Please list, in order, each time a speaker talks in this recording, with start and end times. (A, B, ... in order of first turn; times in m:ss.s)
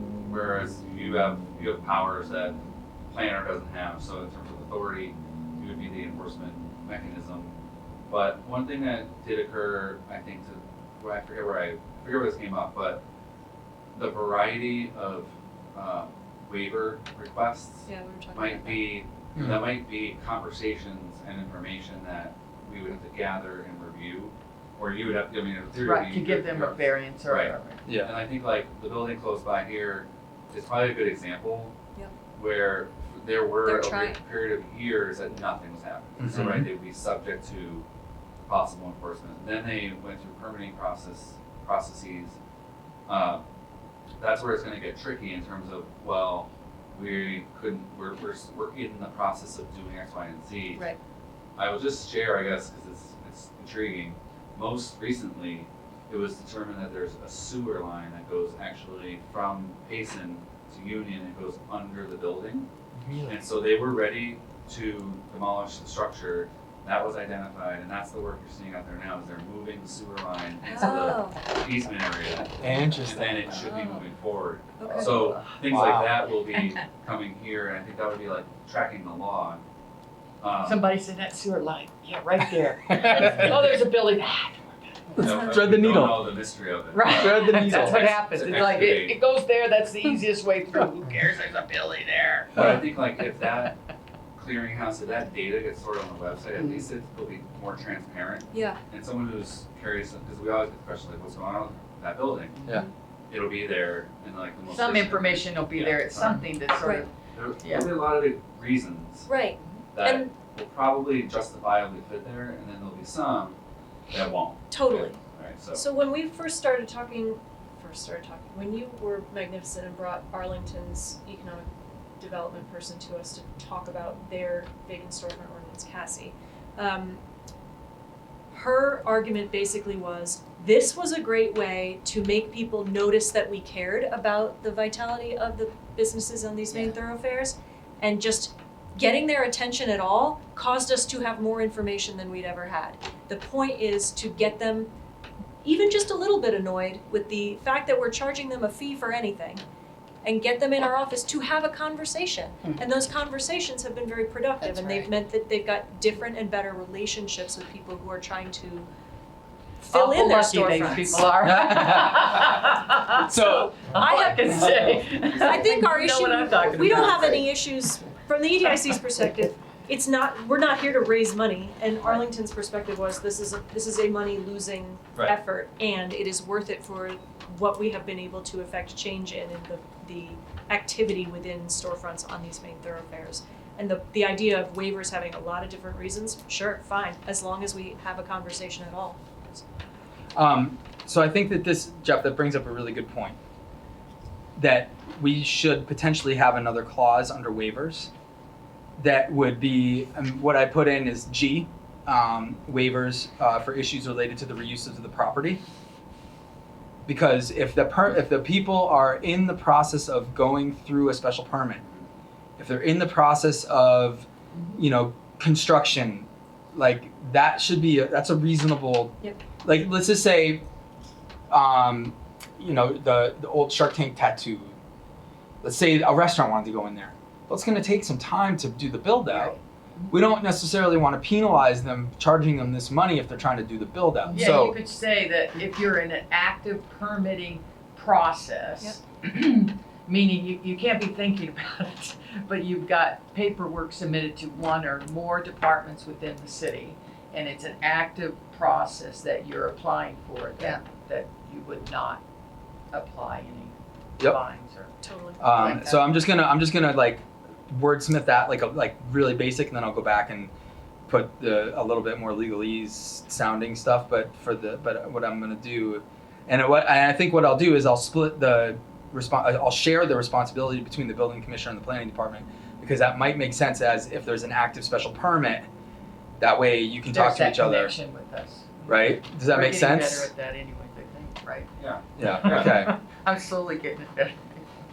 0:00.3-0:02.6 A
0:03.1-0:07.5 A
0:08.1-0:13.0 A
0:13.9-0:31.7 A
0:17.8-0:18.9 B
0:19.3-0:19.7 C
0:25.8-0:27.8 D
0:27.8-0:28.1 C
0:32.3-0:37.8 A
0:33.6-0:34.2 B
0:36.2-0:36.7 C
0:38.5-0:42.4 A
0:43.1-0:43.4 A
0:44.2-0:50.8 A
0:51.6-1:02.7 A
1:03.0-1:03.4 C
1:03.3-1:19.6 A
1:10.7-1:11.4 B
1:12.6-1:13.6 C
1:13.8-1:14.0 D
1:14.8-1:15.3 B
1:14.8-1:15.6 D
1:15.6-1:16.2 C
1:20.4-1:20.8 A
1:20.6-1:25.2 D
1:22.9-1:23.7 C
1:25.2-1:26.2 C
1:25.2-1:29.2 A
1:26.9-1:32.5 D
1:27.0-1:28.2 C
1:32.5-1:33.7 A
1:32.6-1:32.8 C
1:34.3-1:42.6 A
1:38.5-1:38.8 B
1:43.3-1:46.6 A
1:44.7-1:47.9 D
1:47.3-1:49.3 A
1:49.3-1:50.3 B
1:49.9-1:53.6 A
1:54.1-1:55.8 A
1:54.7-1:55.2 B
1:55.7-2:07.2 B
2:08.5-2:24.9 B
2:25.6-2:29.6 B
2:30.2-2:38.9 B
2:34.6-2:35.1 D
2:39.8-2:41.3 B
2:39.9-2:43.3 D
2:41.4-2:43.8 C
2:43.4-3:09.6 B
2:43.9-2:47.5 D
3:10.3-3:13.4 C
3:14.6-3:18.1 C
3:19.0-3:25.6 C
3:27.0-3:31.8 C
3:31.8-3:32.1 A
3:32.6-3:40.6 C
3:41.5-3:44.8 C
3:45.6-3:49.5 C
3:49.3-3:50.1 D
3:50.1-3:54.8 C
3:54.3-4:12.2 D
4:12.9-4:14.9 D
4:15.0-4:16.0 B
4:15.4-4:20.5 C
4:15.5-4:16.0 D
4:21.1-4:35.6 C
4:36.4-4:37.9 C
4:37.1-4:44.6 D
4:38.8-4:40.3 C
4:41.8-4:42.8 A
4:42.2-4:42.9 C